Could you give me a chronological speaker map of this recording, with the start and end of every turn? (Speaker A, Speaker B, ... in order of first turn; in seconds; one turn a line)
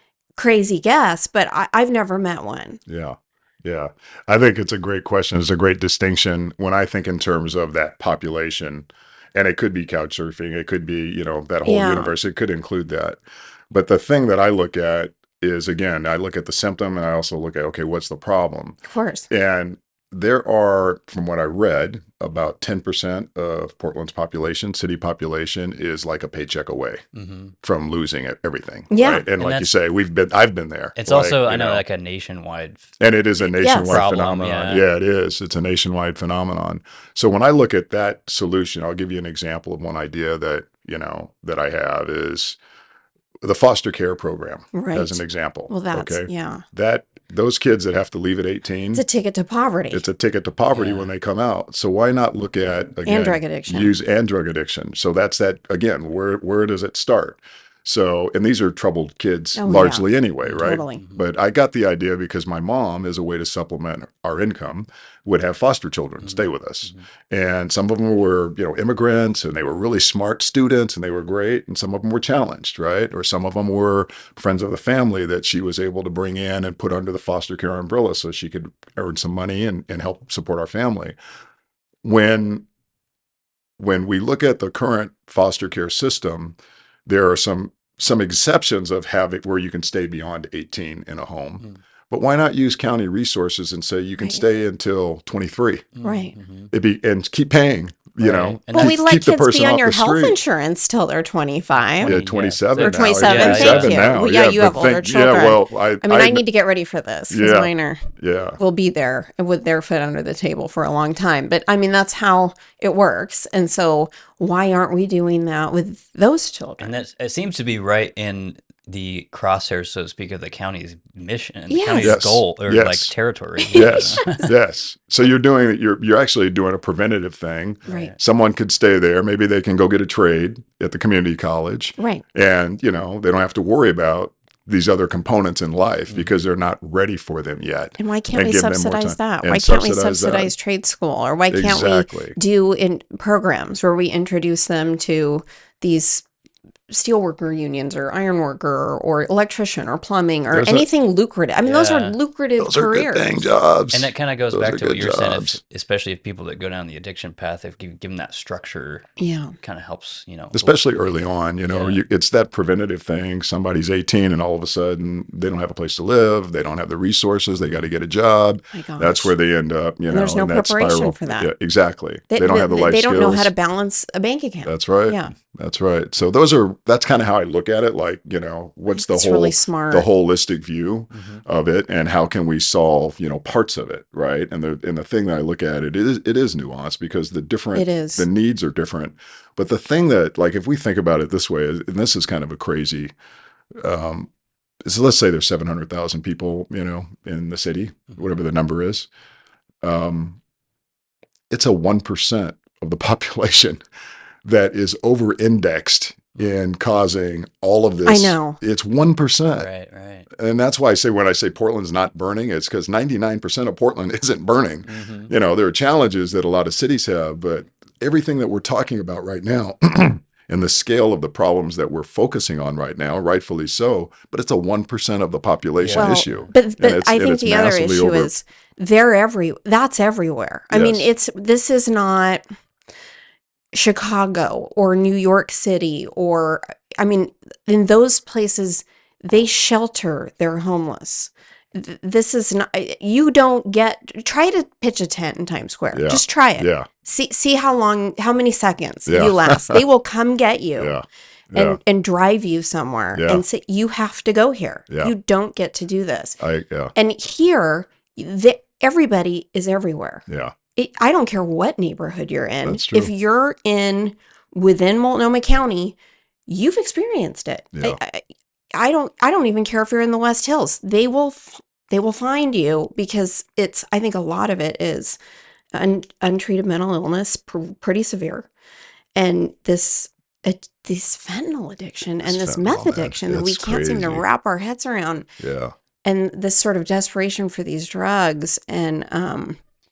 Speaker A: 0.3-2.8
Speaker B: 2.9-13.2
Speaker A: 11.6-12.1
Speaker B: 13.7-18.8
Speaker A: 18.9-19.3
Speaker B: 19.3-27.0
Speaker C: 27.1-27.5
Speaker B: 27.6-31.8
Speaker A: 28.9-29.3
Speaker C: 29.4-29.7
Speaker C: 30.9-32.9
Speaker B: 33.0-42.6
Speaker A: 33.6-34.0
Speaker C: 33.8-34.9
Speaker B: 43.4-49.0
Speaker A: 44.7-46.6
Speaker A: 48.9-50.0
Speaker B: 49.9-81.2
Speaker C: 50.7-51.1
Speaker A: 53.0-53.9
Speaker A: 59.5-61.0
Speaker C: 60.4-61.2
Speaker C: 66.2-67.0
Speaker B: 82.0-82.7
Speaker B: 83.8-95.9
Speaker C: 95.9-96.7
Speaker A: 96.0-96.3
Speaker B: 96.7-100.4
Speaker C: 98.2-99.0
Speaker A: 98.7-102.2
Speaker C: 102.0-104.1
Speaker B: 102.0-106.4
Speaker A: 102.8-108.0
Speaker B: 107.3-108.6
Speaker A: 108.6-116.9
Speaker C: 116.8-124.5
Speaker A: 121.7-122.2
Speaker B: 122.0-123.1
Speaker A: 123.6-124.4
Speaker B: 123.7-140.5
Speaker C: 127.8-128.2
Speaker A: 127.8-128.1
Speaker A: 132.0-132.2
Speaker A: 138.0-146.2
Speaker B: 141.5-142.4
Speaker A: 146.9-153.6
Speaker B: 150.5-150.9
Speaker C: 151.6-152.2
Speaker B: 152.6-155.6
Speaker C: 153.9-159.1
Speaker A: 159.2-159.6
Speaker C: 159.6-160.7
Speaker B: 160.5-173.5
Speaker C: 161.7-162.0
Speaker A: 168.7-169.3
Speaker A: 170.1-171.5
Speaker A: 172.3-175.3
Speaker B: 174.7-193.1
Speaker A: 178.9-180.1
Speaker C: 181.1-181.4
Speaker A: 187.7-188.3
Speaker B: 193.8-194.3
Speaker B: 194.8-199.1
Speaker B: 199.8-200.4
Speaker B: 201.5-203.8
Speaker B: 204.4-209.7
Speaker A: 208.1-208.6
Speaker C: 209.5-210.3
Speaker B: 210.3-228.3
Speaker C: 214.8-215.3
Speaker C: 225.8-226.4
Speaker A: 225.9-232.4
Speaker B: 230.7-231.1
Speaker A: 233.7-250.9
Speaker B: 245.9-246.9
Speaker B: 249.1-249.8
Speaker B: 250.8-251.8
Speaker A: 251.5-256.4
Speaker B: 253.1-253.4
Speaker B: 256.4-256.9
Speaker A: 256.9-260.2
Speaker B: 260.3-260.5
Speaker A: 260.8-275.2
Speaker B: 262.6-263.1
Speaker B: 267.7-268.0
Speaker A: 275.7-278.5
Speaker A: 279.1-285.3
Speaker B: 282.2-284.2
Speaker B: 285.4-285.7
Speaker A: 286.0-289.6